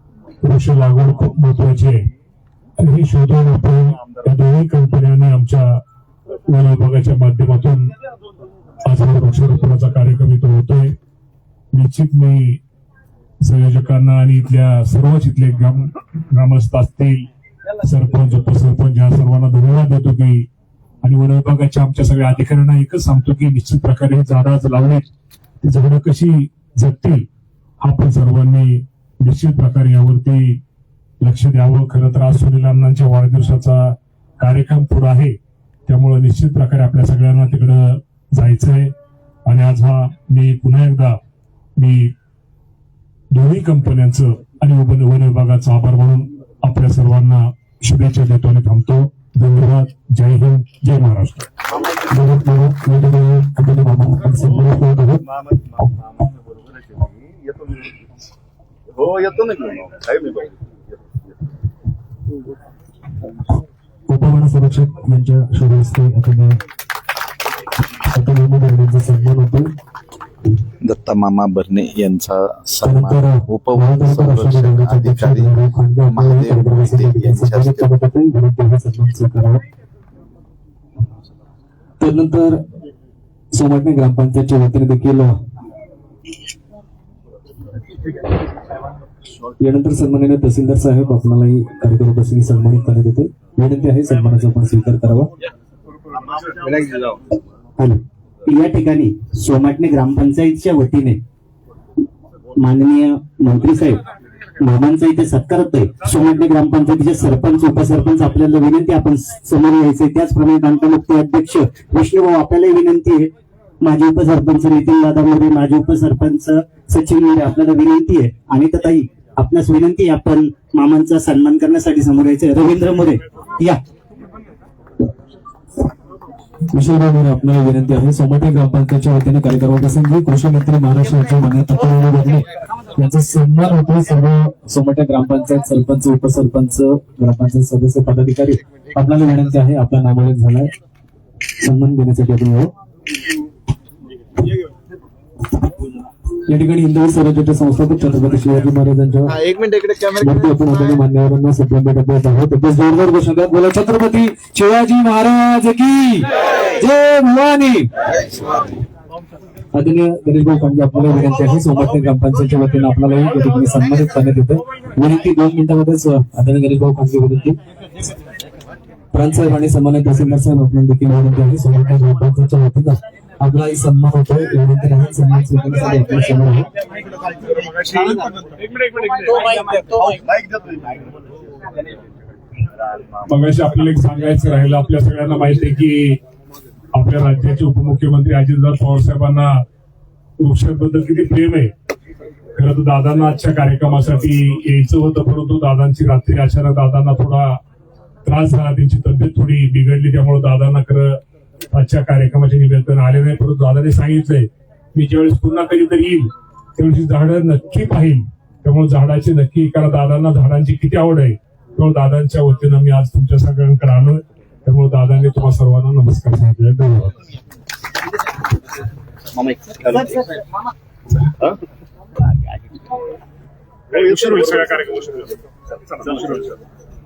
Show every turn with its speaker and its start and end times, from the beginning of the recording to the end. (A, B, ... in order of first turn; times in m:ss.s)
0:00.4-0:02.1 A
0:02.8-0:05.8 A
0:06.5-0:07.9 A
0:08.8-0:10.9 A
0:11.7-0:12.6 A
0:13.4-0:17.3 A
0:17.8-0:20.5 A
0:21.0-0:25.0 A
0:25.6-0:27.3 A
0:27.8-0:30.6 A
0:31.2-0:38.9 A
0:39.4-0:41.2 A
0:41.8-0:42.1 A
0:43.3-0:51.4 A
0:52.1-0:55.2 B
1:04.1-1:06.6 B
1:08.1-1:09.7 B
1:10.8-1:15.5 C
1:12.8-1:19.6 B
1:16.1-1:17.9 C
1:22.0-1:22.6 B
1:23.6-1:25.3 B
1:29.6-1:35.3 B
1:37.8-1:41.2 D
1:42.6-1:44.0 D
1:44.6-1:53.3 D
1:53.8-2:03.8 D
2:06.7-2:12.4 B
2:13.0-2:20.7 B
2:21.6-2:22.7 B
2:26.5-2:29.4 B
2:29.3-2:30.5 C
2:30.2-2:37.9 B
2:39.7-2:47.6 B
2:49.1-2:56.7 B
3:03.3-3:06.2 A
3:06.9-3:09.6 A
3:10.4-3:11.7 A
3:12.6-3:17.6 A
3:18.2-3:21.2 A
3:21.7-3:37.2 A
3:39.8-3:40.3 D
3:43.9-3:45.3 A
3:45.9-3:46.5 A